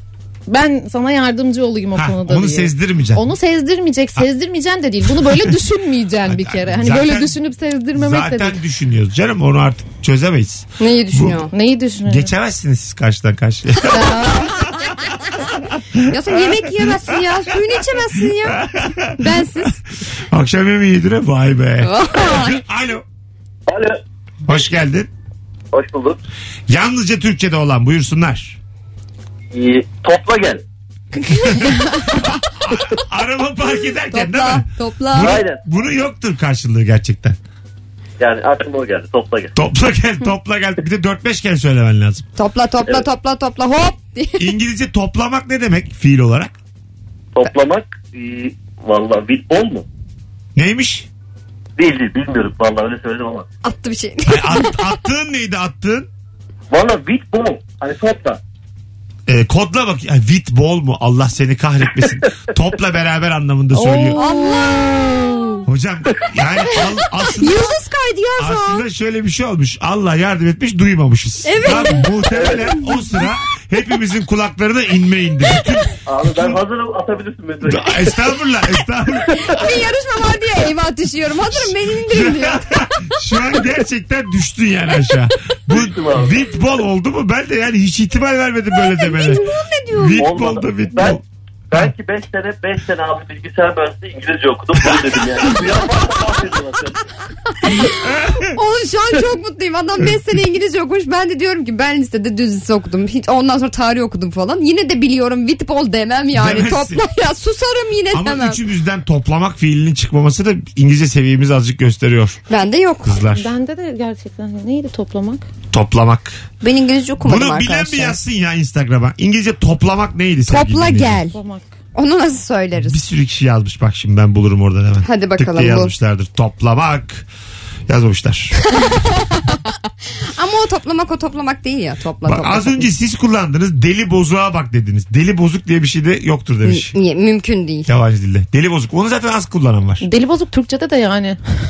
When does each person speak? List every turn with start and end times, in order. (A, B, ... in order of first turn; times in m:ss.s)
0:00.5-0:08.6 A
0:01.9-0:03.3 B
0:06.3-0:07.4 B
0:07.9-0:11.5 B
0:10.8-0:11.5 C
0:11.5-0:12.3 A
0:12.0-0:14.5 B
0:13.9-0:14.6 C
0:13.9-0:14.4 A
0:16.1-0:18.6 C
0:18.4-0:19.6 B
0:19.2-0:19.8 C
0:20.3-0:23.0 B
0:21.8-0:22.6 C
0:23.7-0:24.0 D
0:24.4-0:25.1 B
0:25.7-0:26.2 D
0:26.7-0:28.6 B
0:29.5-0:30.6 D
0:31.3-0:37.4 B
0:34.1-0:35.4 C
0:35.2-0:35.6 D
0:38.2-0:39.5 D
0:39.6-0:42.2 B
0:42.4-0:44.5 C
0:44.4-0:46.5 B
0:47.3-0:49.8 D
0:50.6-0:51.1 B
0:51.8-0:53.5 D
0:53.6-0:54.8 C
0:54.2-0:56.1 B
0:56.7-0:58.4 D
0:59.3-1:04.2 B
1:03.8-1:05.6 C
1:03.9-1:04.7 A
1:05.6-1:07.7 B
1:06.7-1:08.8 C
1:08.4-1:16.6 B
1:11.4-1:12.2 C
1:12.3-1:12.7 D
1:16.0-1:18.2 D
1:17.6-1:19.5 B
1:19.4-1:22.6 C
1:21.6-1:31.2 B
1:25.7-1:26.4 D
1:28.8-1:30.2 C
1:30.2-1:31.2 D
1:31.7-1:37.0 D
1:37.6-1:48.6 C
1:38.0-1:38.4 B
1:46.3-1:47.0 B
1:48.1-1:52.4 B
1:52.5-1:53.2 C
1:53.0-1:53.5 B
1:53.4-1:55.4 A
1:55.7-1:56.4 B
1:56.6-1:58.2 C
1:57.2-2:01.2 B
2:00.5-2:01.4 C
2:01.3-2:01.7 A
2:01.9-2:03.0 C
2:02.8-2:07.3 B
2:05.0-2:05.9 C
2:07.9-2:08.7 B
2:08.7-2:09.7 C
2:10.3-2:12.9 C
2:12.2-2:16.9 B
2:16.6-2:17.9 C
2:17.9-2:20.0 B
2:20.0-2:21.4 A